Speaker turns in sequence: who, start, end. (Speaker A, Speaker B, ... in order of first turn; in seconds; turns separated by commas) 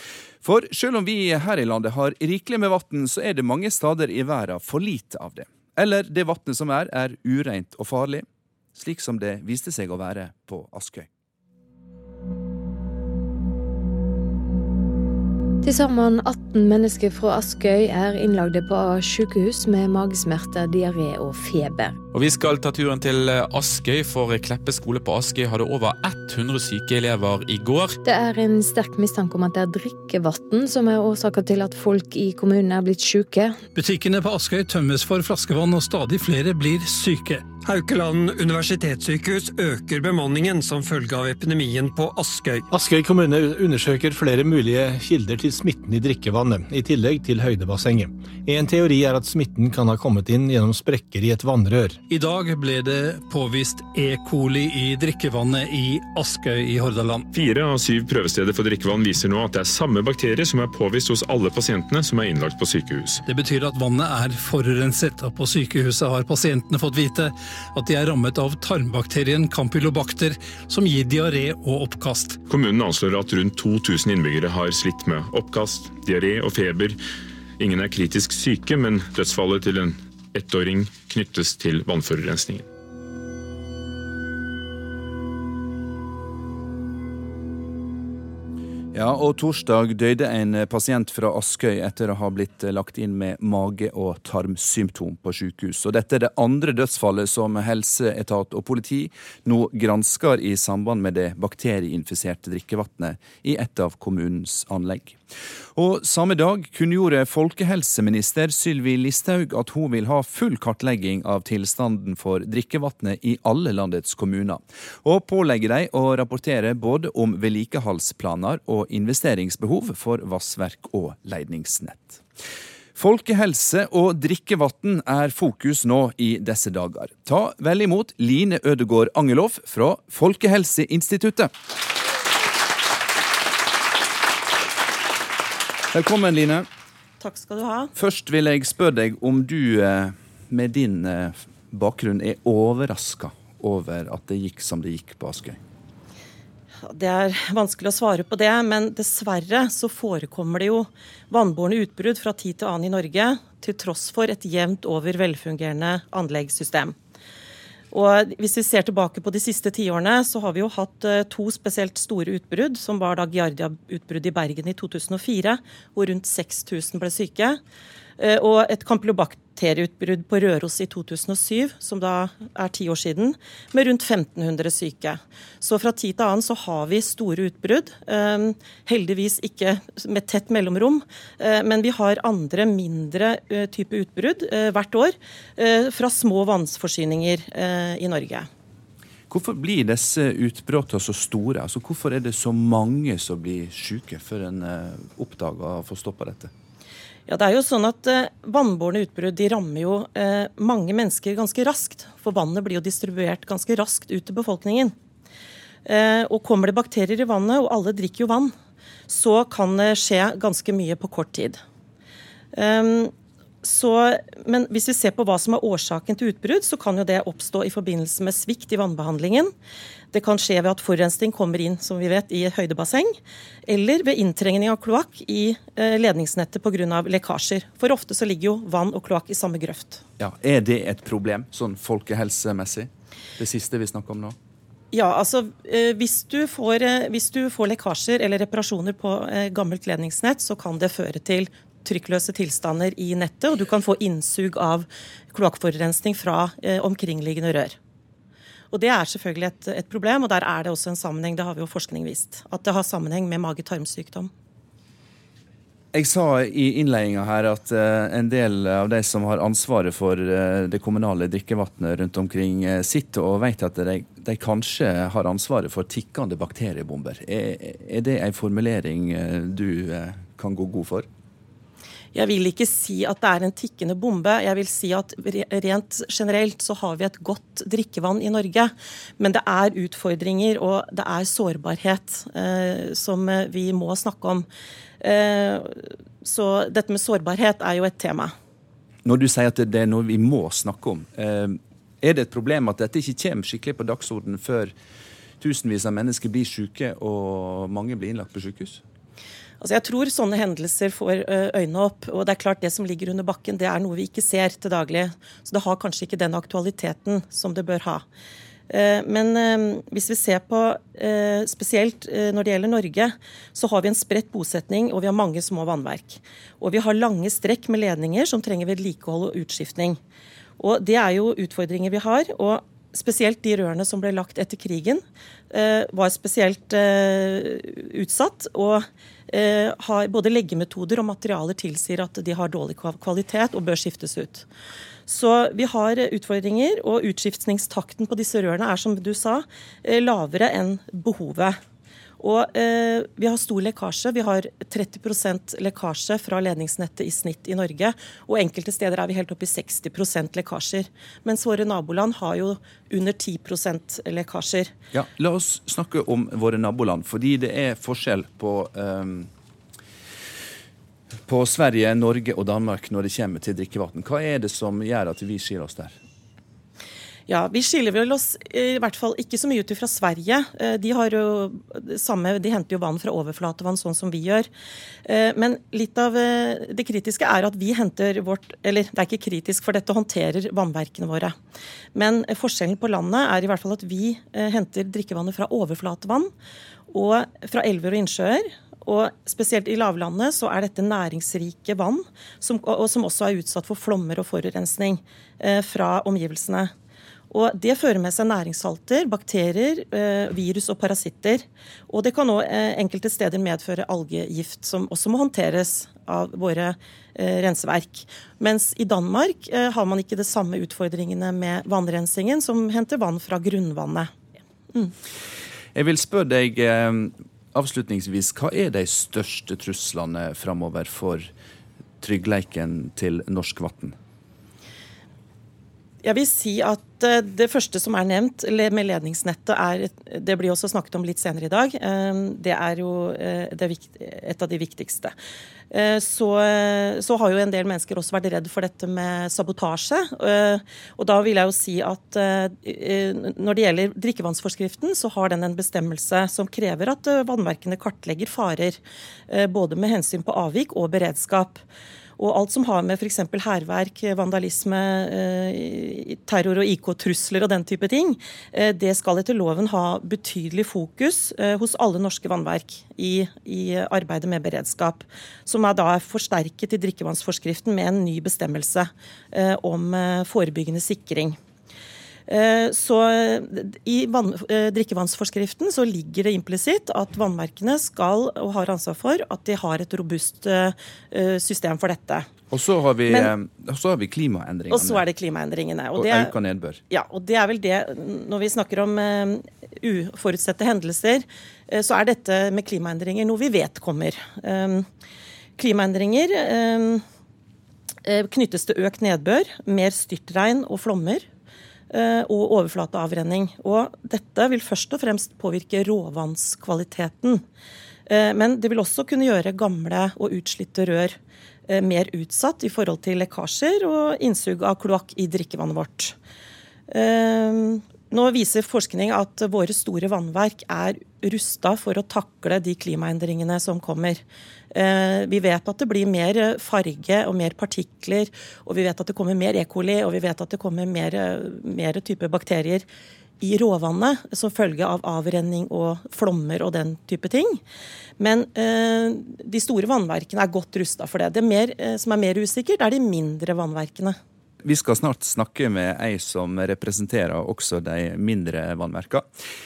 Speaker A: 0.4-11.1, Speaker B: 15.6-22.0, Speaker C: 22.1-28.0, Speaker B: 28.0-33.6, Speaker D: 33.7-37.5, Speaker E: 37.6-42.6, Speaker F: 42.7-52.0, Speaker D: 52.1-57.3, Speaker G: 57.3-63.2, Speaker D: 63.2-72.4, Speaker G: 72.5-77.0, Speaker G: 77.6-82.7, Speaker A: 88.9-105.2, Speaker A: 105.7-122.2, Speaker A: 123.0-131.5, Speaker A: 135.9-136.7, Speaker H: 137.2-137.9, Speaker A: 137.9-145.6, Speaker H: 146.8-156.9, Speaker H: 157.9-167.6, Speaker H: 168.2-188.5, Speaker A: 189.3-196.5, Speaker H: 197.3-204.9, Speaker H: 205.8-208.5, Speaker H: 209.1-211.6, Speaker H: 212.5-219.5, Speaker H: 220.1-230.0, Speaker A: 230.2-234.3, Speaker H: 234.9-247.8, Speaker H: 248.7-254.3, Speaker A: 255.9-271.1, Speaker H: 272.1-284.4, Speaker H: 285.0-288.3, Speaker A: 289.0-294.7, Speaker A: 295.4-298.8, Speaker H: 299.6-308.0, Speaker H: 308.7-320.0, Speaker H: 320.6-334.5, Speaker H: 335.1-341.6, Speaker H: 342.2-354.7, Speaker A: 354.9-359.3, Speaker A: 361.3-365.9, Speaker H: 367.3-374.5, Speaker H: 375.0-381.4, Speaker H: 381.9-386.3, Speaker H: 386.9-396.7, Speaker H: 397.3-414.1, Speaker A: 415.7-421.3, Speaker A: 422.0-423.9, Speaker H: 426.0-435.1, Speaker H: 435.7-451.6, Speaker H: 452.2-471.4, Speaker H: 472.3-482.3, Speaker A: 482.5-485.0, Speaker H: 483.1-483.3, Speaker H: 484.7-486.3, Speaker A: 485.9-486.8, Speaker H: 486.9-494.9, Speaker H: 495.6-497.0, Speaker H: 498.0-501.2, Speaker H: 501.9-507.4, Speaker H: 508.1-516.1, Speaker H: 516.9-532.9, Speaker H: 533.4-537.6, Speaker H: 538.2-544.2, Speaker A: 544.6-549.2